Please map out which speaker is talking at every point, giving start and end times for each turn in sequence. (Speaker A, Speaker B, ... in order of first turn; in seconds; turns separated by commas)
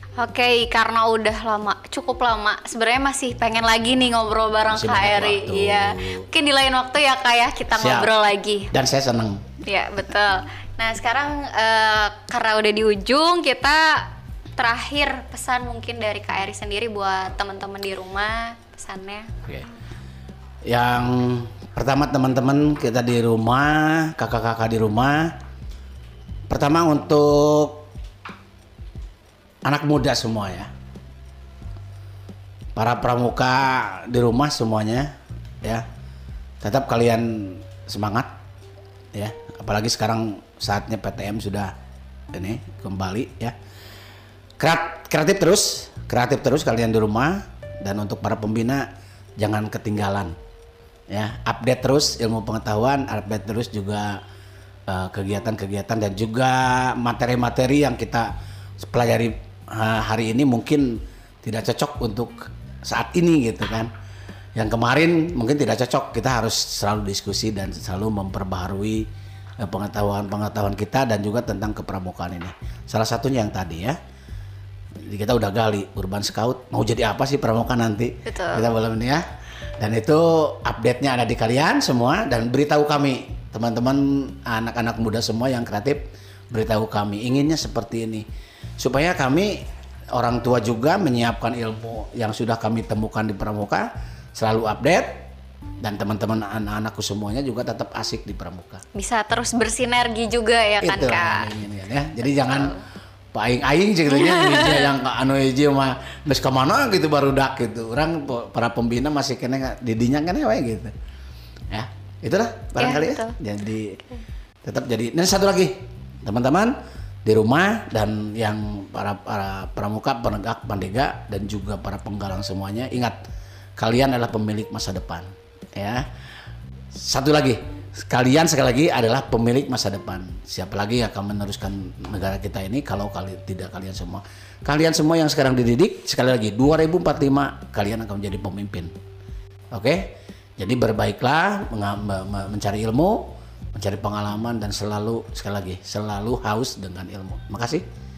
Speaker A: 0.2-8.7, Speaker B: 4.7-6.3, Speaker B: 7.7-8.1, Speaker B: 8.7-9.4, Speaker A: 9.6-19.3, Speaker B: 20.7-25.3, Speaker B: 26.5-27.9, Speaker B: 29.7-30.7, Speaker B: 32.8-35.9, Speaker B: 36.6-38.3, Speaker B: 39.1-41.7, Speaker B: 42.3-43.6, Speaker B: 44.6-48.9, Speaker B: 49.4-50.4, Speaker B: 51.1-54.2, Speaker B: 54.9-63.9, Speaker B: 64.6-69.1, Speaker B: 69.6-74.0, Speaker B: 75.1-79.2, Speaker A: 78.3-78.7, Speaker B: 79.8-88.2, Speaker B: 88.8-89.6, Speaker B: 90.1-95.2, Speaker B: 95.8-98.8, Speaker A: 99.0-101.5, Speaker B: 100.8-102.8, Speaker A: 102.3-102.8, Speaker B: 103.3-110.9, Speaker A: 104.1-104.9, Speaker B: 111.7-114.0, Speaker A: 112.8-113.4, Speaker B: 114.6-116.7, Speaker B: 117.2-123.2, Speaker B: 123.8-126.0, Speaker B: 126.9-138.9, Speaker B: 139.7-147.8